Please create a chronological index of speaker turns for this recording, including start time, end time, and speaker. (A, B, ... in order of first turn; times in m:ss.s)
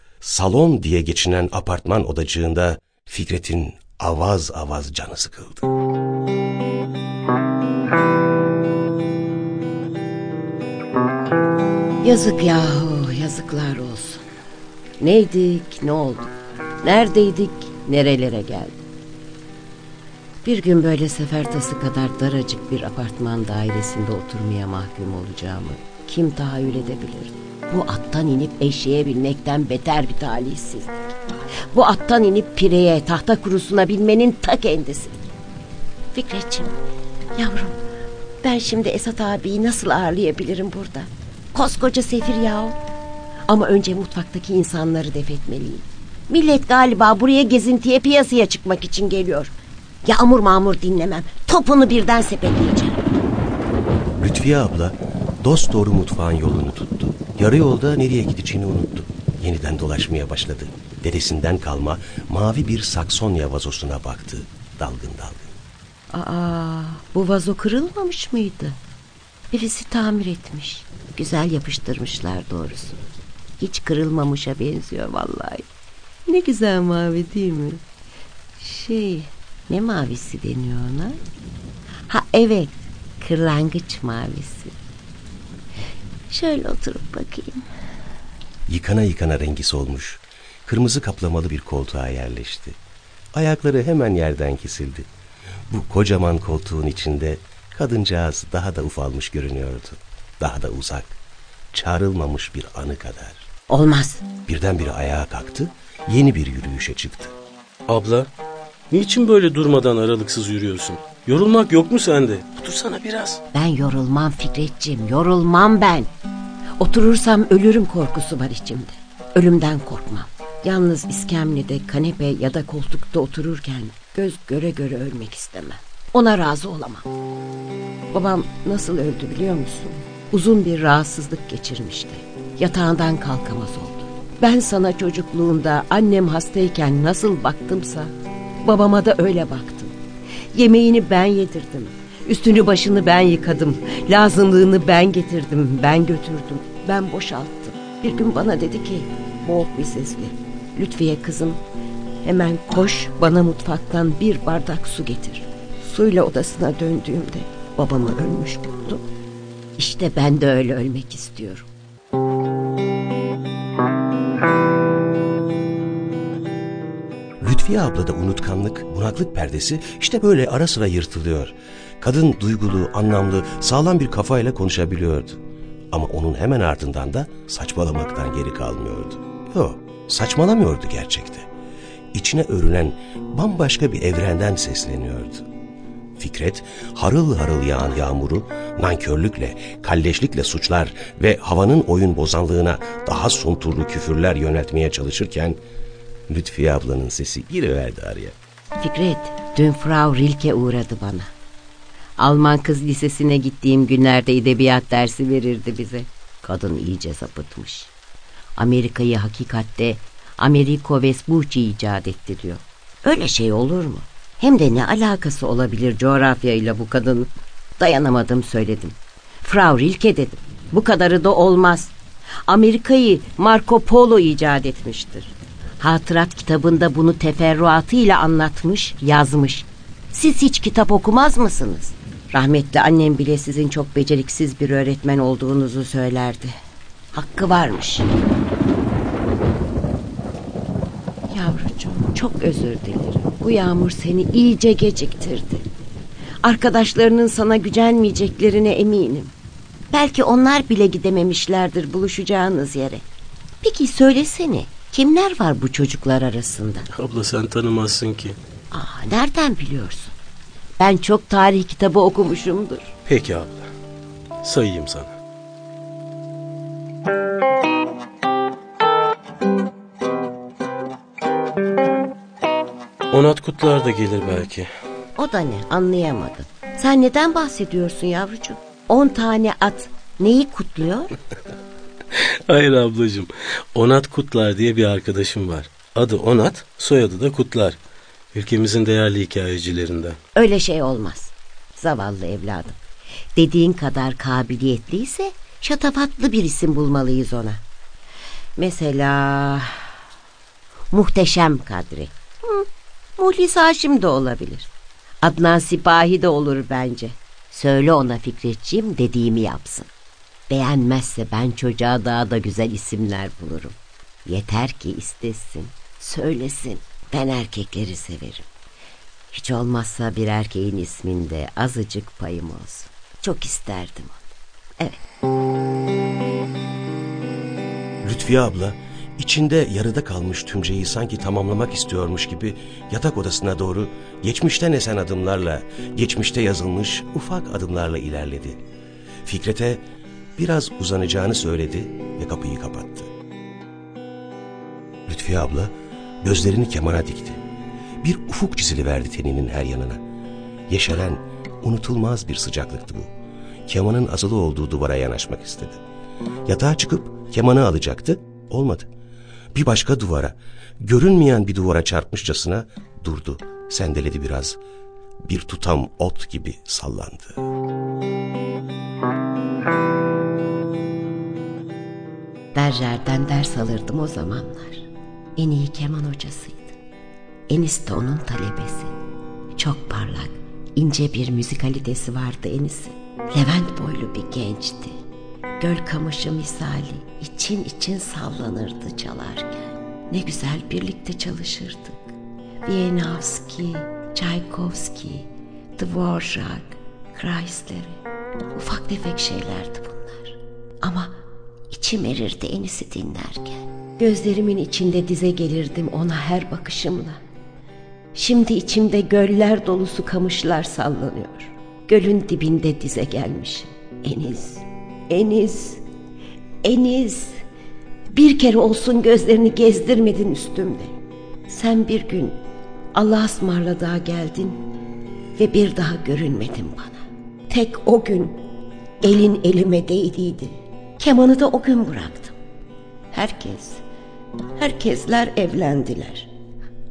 0:00.2-0:05.7 A
0:12.0-0:14.2 B
0:15.0-0:18.8 B
0:20.4-0:31.2 B
0:31.7-0:35.3 B
0:36.1-0:36.8 B
0:37.4-0:37.8 B
0:38.4-0:42.8 B
0:43.5-0:49.5 B
0:50.0-0:53.1 B
0:54.2-1:05.5 A
1:06.1-1:08.8 B
1:09.5-1:13.0 B
1:13.6-1:15.7 B
1:16.3-1:17.8 B
1:18.6-1:21.2 B
1:22.1-1:24.8 B
1:26.3-1:27.7 B
1:28.7-1:32.8 A
1:33.3-1:35.1 A
1:35.7-1:41.2 A
1:41.7-1:43.5 A
1:43.7-1:44.2 B
1:44.4-1:47.3 A
1:47.9-1:48.3 C
1:48.9-1:53.4 C
1:53.5-1:56.1 B
1:56.8-2:07.1 B
2:08.1-2:18.1 B
2:18.6-2:19.9 B
2:20.5-2:31.6 B
2:32.2-2:39.0 B
2:39.8-2:41.7 B
2:47.4-2:55.4 A
2:55.9-3:01.5 A
3:02.1-3:05.4 A
3:06.2-3:15.6 A
3:16.3-3:18.4 A
3:18.8-3:21.3 B
3:22.2-3:27.9 B
3:28.6-3:41.9 B
3:42.4-3:56.5 B
3:57.1-3:58.1 B
4:01.3-4:05.6 B
4:06.4-4:09.3 B
4:09.9-4:13.0 B
4:13.6-4:16.9 B
4:16.9-4:18.4 C
4:18.7-4:20.1 B
4:20.8-4:23.0 B
4:23.1-4:23.7 C
4:24.4-4:25.1 C
4:33.1-4:34.7 C
4:35.2-4:41.1 B
4:42.2-4:47.8 C
4:48.3-4:50.2 C
4:50.3-4:52.8 B
4:53.4-4:57.6 B
4:58.6-4:59.8 B
5:00.9-5:04.7 B
5:05.2-5:09.9 B
5:10.5-5:18.5 B
5:19.3-5:25.0 B
5:28.0-5:38.6 A
5:39.2-5:39.8 A
5:40.4-5:43.1 A
5:45.1-5:47.4 A
5:48.0-5:50.0 A
5:50.7-5:53.1 A
5:53.7-5:55.8 A
5:56.4-5:58.9 A
5:59.5-6:04.6 A
6:05.2-6:07.4 A
6:12.5-6:16.8 B
6:17.5-6:18.9 B
6:19.6-6:24.9 B
6:25.6-6:38.0 B
6:38.5-6:41.2 B
6:41.7-6:47.2 B
6:48.1-6:55.8 B
6:56.6-6:57.4 B
6:58.1-7:00.9 B
7:01.5-7:02.4 B
7:02.9-7:04.7 B
7:05.4-7:08.4 B
7:09.0-7:12.3 B
7:13.1-7:13.8 B
7:14.6-7:16.3 B